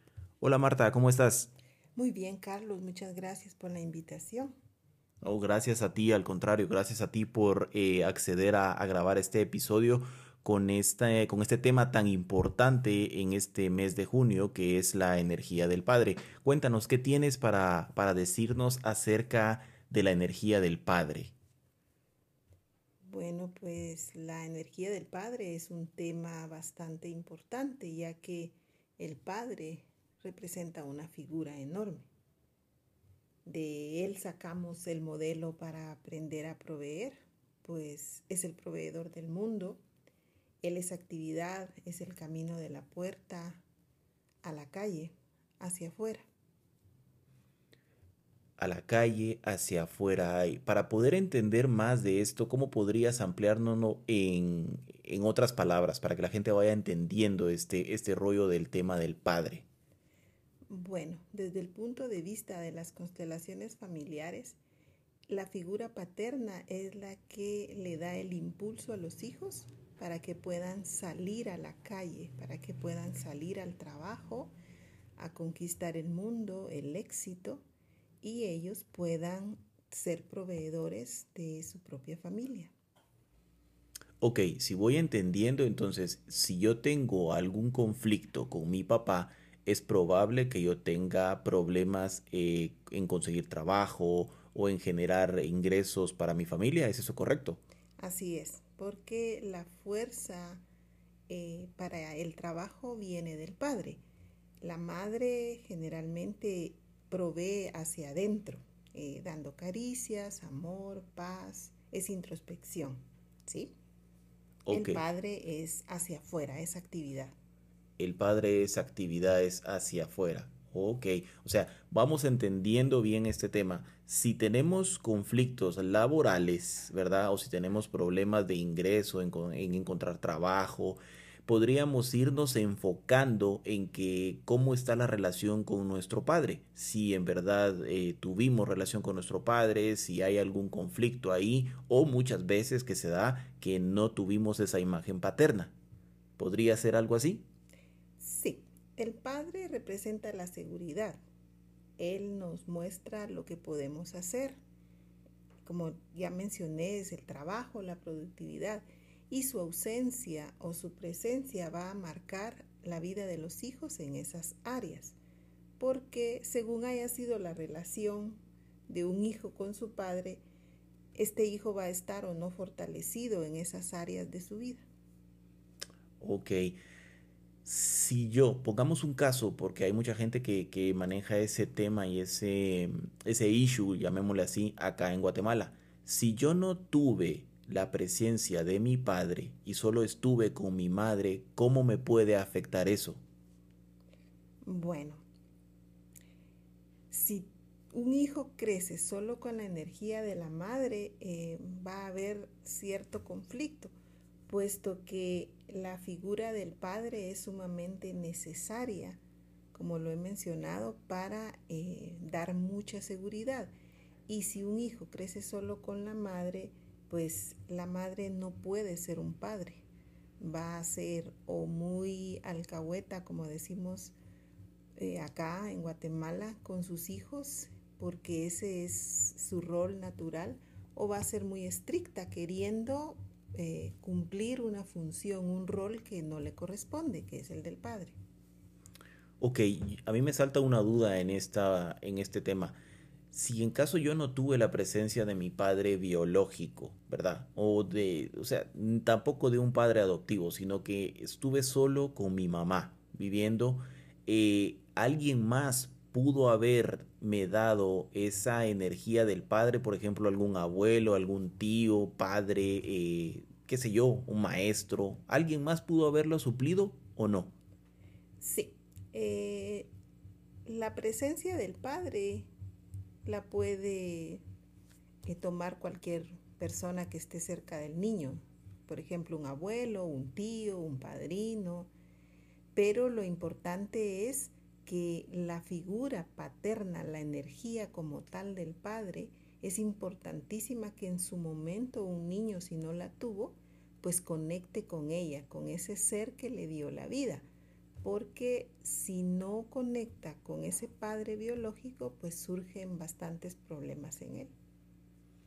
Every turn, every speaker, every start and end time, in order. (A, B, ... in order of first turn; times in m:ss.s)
0:00.4-0:01.5 A
0:02.0-0:04.5 B
0:05.2-0:21.3 A
0:23.1-0:32.1 B
0:33.5-0:39.8 B
0:40.6-0:43.6 B
0:44.4-0:46.3 B
0:48.6-0:59.6 A
1:00.7-1:04.6 B
1:05.3-1:14.5 B
1:15.2-1:17.6 B
1:18.2-1:22.7 B
1:24.2-1:37.6 A
1:38.0-1:40.6 B
1:41.3-1:44.0 B
1:44.6-1:53.7 B
1:54.7-1:55.0 A
1:54.7-1:57.4 B
1:58.0-2:25.7 A
2:26.4-2:27.5 A
2:28.2-2:31.2 B
2:32.0-2:34.6 B
2:35.6-2:45.2 B
2:45.8-2:50.4 B
2:51.2-2:54.8 B
2:56.2-2:56.8 A
2:57.6-3:13.2 A
3:14.6-3:15.2 B
3:17.1-3:23.9 B
3:24.5-3:29.2 B
3:29.7-3:33.7 B
3:34.3-3:39.8 B
3:40.4-3:44.2 B
3:45.0-3:58.2 B
3:59.4-4:02.8 A
4:03.3-4:27.6 A
4:28.4-4:29.9 B
4:30.7-4:32.5 B
4:33.2-4:34.4 B
4:35.3-4:41.9 B
4:42.8-4:57.4 B
4:58.0-5:04.5 B